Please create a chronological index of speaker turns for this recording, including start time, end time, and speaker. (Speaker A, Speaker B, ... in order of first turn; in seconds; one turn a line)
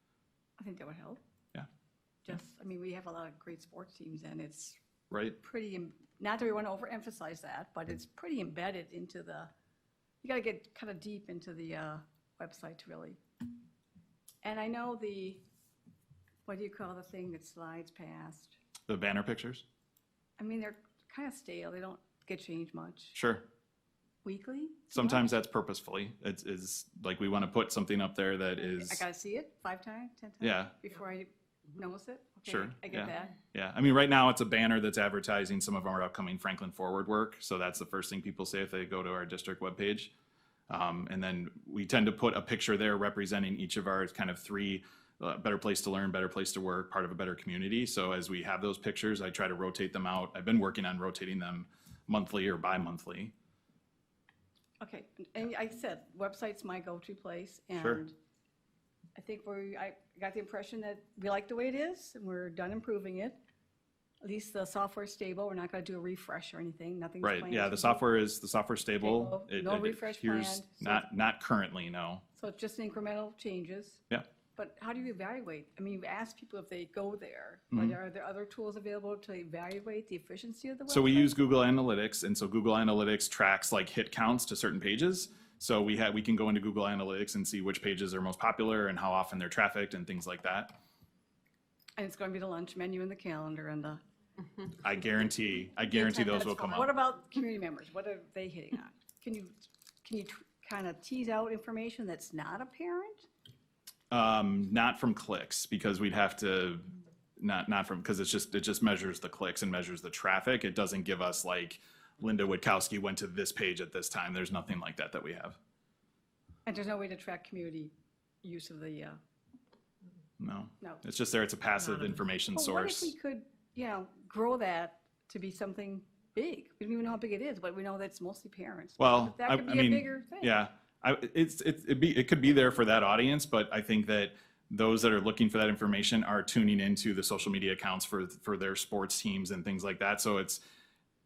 Speaker A: 0.6-1.2
Speaker A: 2.2-4.8
Speaker B: 5.1-5.4
Speaker A: 5.4-9.5
Speaker A: 10.2-13.2
Speaker A: 14.4-15.4
Speaker A: 16.5-18.6
Speaker B: 18.9-19.6
Speaker A: 20.4-23.2
Speaker B: 23.1-23.4
Speaker A: 24.2-25.3
Speaker B: 24.9-29.0
Speaker A: 28.7-33.4
Speaker B: 30.4-30.7
Speaker B: 32.5-40.1
Speaker B: 40.7-53.3
Speaker A: 54.8-58.1
Speaker A: 59.2-63.4
Speaker A: 64.2-68.0
Speaker B: 67.2-72.2
Speaker A: 69.0-71.0
Speaker A: 72.4-74.0
Speaker A: 74.6-81.3
Speaker B: 77.7-78.0
Speaker B: 80.9-90.7
Speaker A: 92.0-94.0
Speaker B: 94.8-96.9
Speaker A: 95.9-103.3
Speaker B: 104.1-115.6
Speaker A: 116.7-119.2
Speaker B: 120.4-123.1
Speaker A: 122.5-130.5
Speaker B: 129.0-140.6